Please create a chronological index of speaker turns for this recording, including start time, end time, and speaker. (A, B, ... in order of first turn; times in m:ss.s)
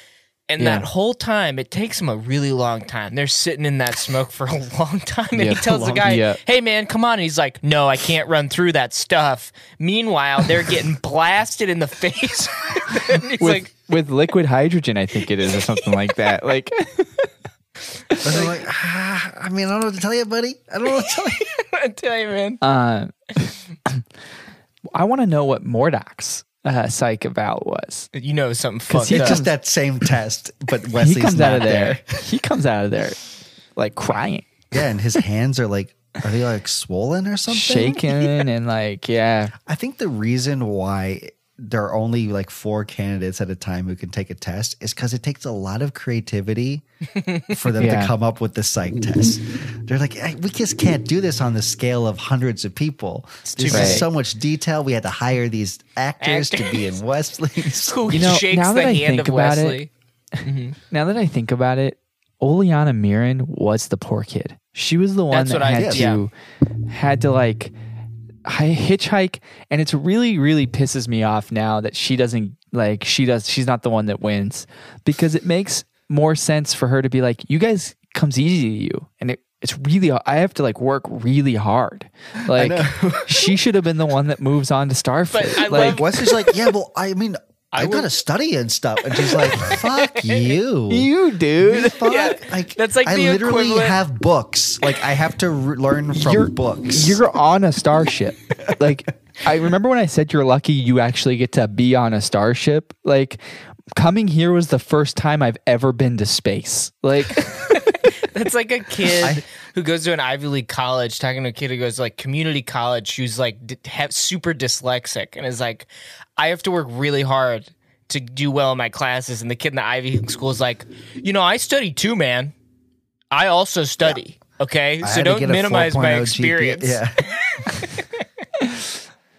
0:00.5-0:13.7 A
0:00.6-0:00.9 B
0:05.3-0:06.4 B
0:13.4-0:17.3 B
0:18.2-0:21.5 C
0:21.4-0:22.6 A
0:22.6-0:24.0 B
0:24.9-0:28.1 B
0:28.1-0:29.5 A
0:28.9-0:29.5 B
0:29.1-0:32.2 C
0:30.9-0:33.2 B
0:33.8-0:34.5 B
0:34.7-0:38.3 C
0:37.5-0:39.5 B
0:39.7-0:46.8 C
0:47.5-0:58.0 C
0:47.8-0:48.1 B
0:53.4-0:54.1 A
0:53.7-0:54.0 B
0:56.2-0:56.9 A
0:57.8-0:59.9 A
0:58.1-0:59.8 B
1:00.4-1:00.8 A
1:00.9-1:06.3 B
1:05.3-1:06.2 A
1:05.8-1:06.1 C
1:06.9-1:07.7 B
1:08.4-1:26.0 B
1:22.4-1:23.5 C
1:25.3-1:26.5 A
1:25.7-1:37.2 C
1:27.7-1:28.1 A
1:29.2-1:30.5 A
1:30.9-1:32.1 B
1:32.0-1:34.0 A
1:36.2-1:43.4 B
1:43.9-1:47.9 B
1:47.7-2:02.5 A
2:03.3-2:07.0 A
2:05.0-2:07.3 C